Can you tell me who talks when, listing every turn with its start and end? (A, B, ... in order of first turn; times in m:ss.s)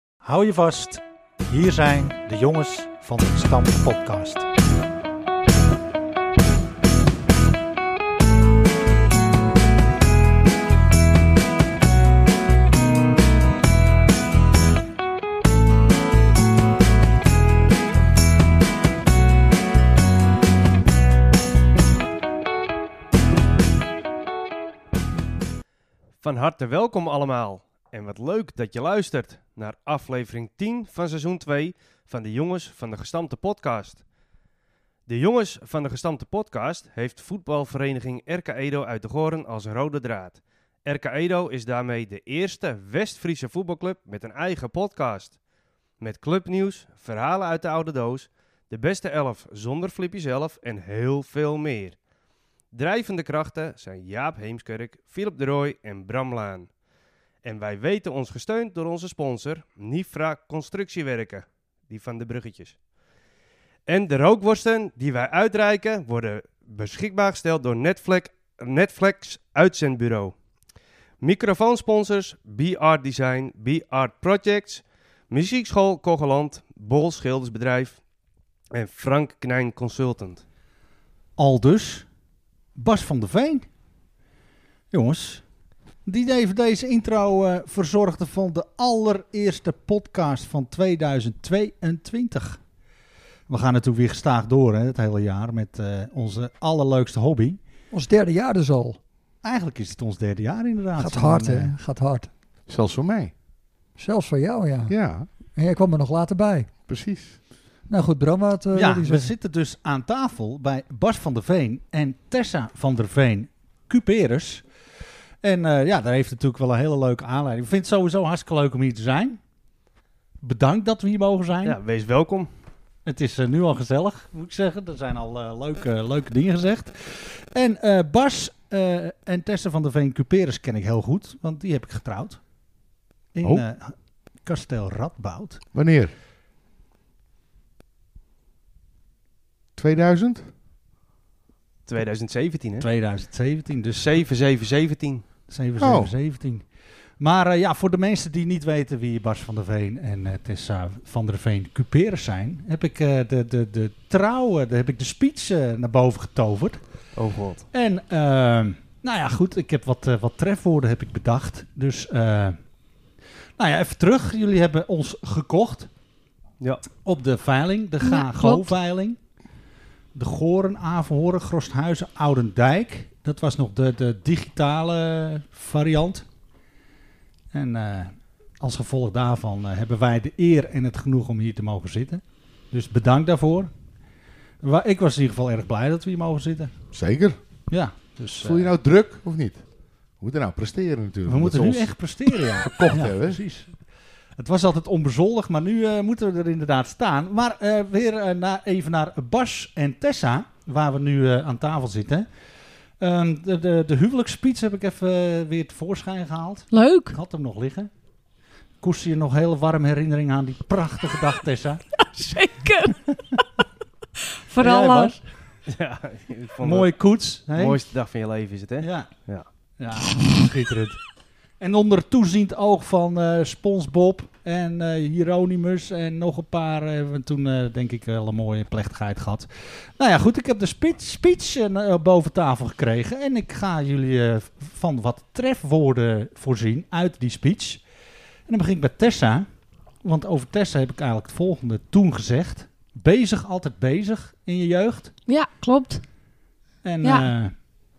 0:00.2-0:04.5 A
0:26.2-0:34.0 B
0:35.1-0:45.4 B
0:46.0-0:52.0 B
0:52.7-0:56.7 B
0:57.4-1:02.7 B
1:03.9-1:10.3 B
1:11.2-1:18.0 B
1:18.7-1:20.4 B
1:21.4-1:22.1 A
1:22.8-1:23.7 A
1:24.9-1:25.4 A
1:26.0-1:32.6 A
1:33.5-1:37.6 A
1:37.9-1:39.0 C
1:39.4-1:41.7 A
1:41.0-1:42.3 C
1:42.7-1:43.3 D
1:44.0-1:44.9 C
1:44.9-1:45.3 D
1:45.5-1:46.7 C
1:46.9-1:47.4 D
1:47.9-1:49.3 C
1:48.7-1:54.6 A
1:55.4-1:59.4 A
2:00.4-2:01.8 A
2:01.6-2:02.5 B
2:03.0-2:12.4 A
2:13.3-2:15.6 A
2:15.7-2:16.1 D
2:19.8-2:20.4 D
2:21.9-2:22.9 B
2:22.8-2:24.1 A
2:24.0-2:25.2 B
2:25.5-2:26.6 A
2:25.8-2:26.1 D
2:27.2-2:36.8 A
2:37.2-2:37.6 B
2:37.7-2:42.6 A
2:43.6-2:45.9 A
2:47.0-2:49.2 A
2:48.0-2:48.7 E
2:50.1-2:56.2 A
2:57.5-3:03.7 A
3:04.6-3:06.7 A
3:06.9-3:07.4 D
3:07.7-3:08.7 A
3:08.4-3:09.6 D
3:10.2-3:11.9 D
3:11.3-3:13.7 A
3:12.5-3:13.4 D
3:14.4-3:22.3 A
3:23.0-3:27.9 A
3:26.7-3:27.2 E
3:28.8-3:31.8 A
3:32.0-3:33.0 E
3:34.4-3:35.2 E
3:34.6-3:35.2 A
3:35.7-3:37.0 B
3:36.6-3:37.8 A
3:37.5-3:39.4 B
3:38.8-3:39.1 A
3:39.8-3:41.0 A
3:41.6-3:57.8 A
3:58.5-3:59.5 A
4:00.0-4:05.1 A
4:05.3-4:06.0 E
4:06.8-4:07.5 A
4:07.0-4:07.3 E